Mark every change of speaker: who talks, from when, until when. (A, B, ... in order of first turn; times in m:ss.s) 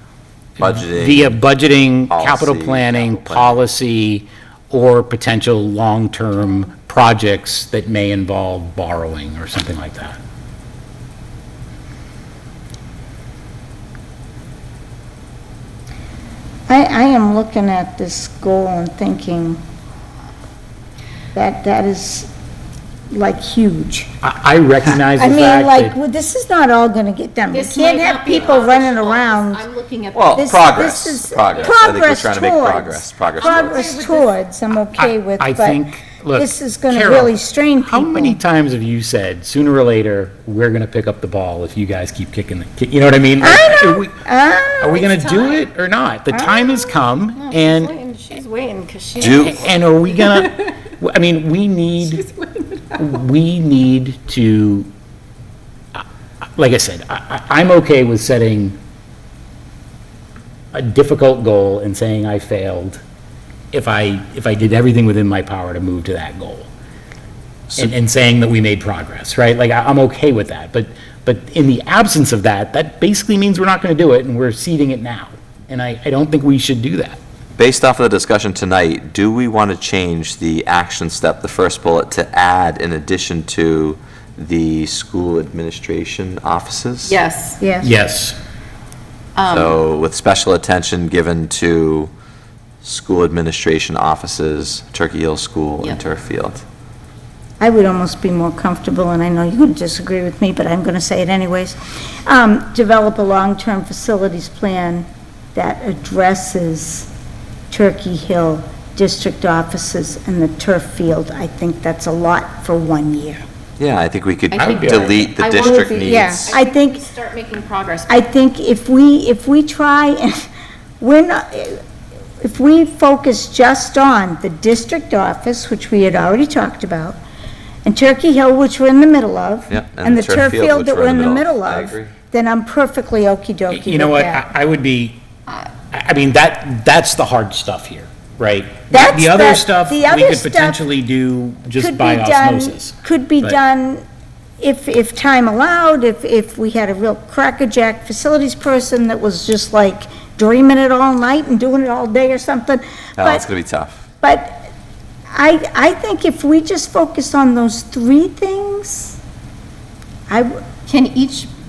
0:00.6-0:01.4 A
0:00.6-0:10.2 B
0:02.1-0:03.6 A
0:16.7-0:19.6 C
0:21.3-0:22.3 C
0:23.1-0:24.1 C
0:24.2-0:26.0 B
0:25.2-0:29.6 C
0:27.5-0:30.8 D
0:30.1-0:33.9 A
0:30.4-0:38.4 C
0:33.4-0:34.3 D
0:35.0-0:44.2 B
0:43.4-0:45.2 C
0:44.8-0:47.9 B
0:45.0-0:45.6 D
0:46.3-0:46.9 C
0:47.4-0:50.7 D
0:49.2-0:49.7 A
0:49.3-0:52.2 B
0:52.0-0:53.0 D
0:53.0-0:54.9 B
0:56.6-0:58.8 B
1:00.7-1:03.0 B
1:03.7-1:06.7 B
1:07.7-1:17.2 B
1:17.6-1:27.2 A
1:27.0-1:27.6 D
1:27.6-1:27.9 C
1:27.8-1:28.4 B
1:29.4-1:29.8 D
1:29.5-1:32.1 A
1:32.8-1:36.6 A
1:37.6-1:47.1 C
1:47.7-1:53.4 C
1:53.8-1:56.5 A
1:54.5-1:58.2 D
1:54.6-1:55.2 B
1:55.6-1:57.0 C
1:58.1-2:00.5 C
2:01.0-2:01.8 C
2:02.4-2:07.2 C
2:07.8-2:14.4 C
2:09.7-2:12.1 A
2:13.7-2:15.2 B
2:15.9-2:23.6 B
2:18.9-2:20.8 C
2:21.8-2:24.0 C
2:24.6-2:33.4 C
2:33.2-2:34.0 A
2:34.2-2:34.7 C
2:35.3-2:39.2 C
2:40.9-2:41.5 D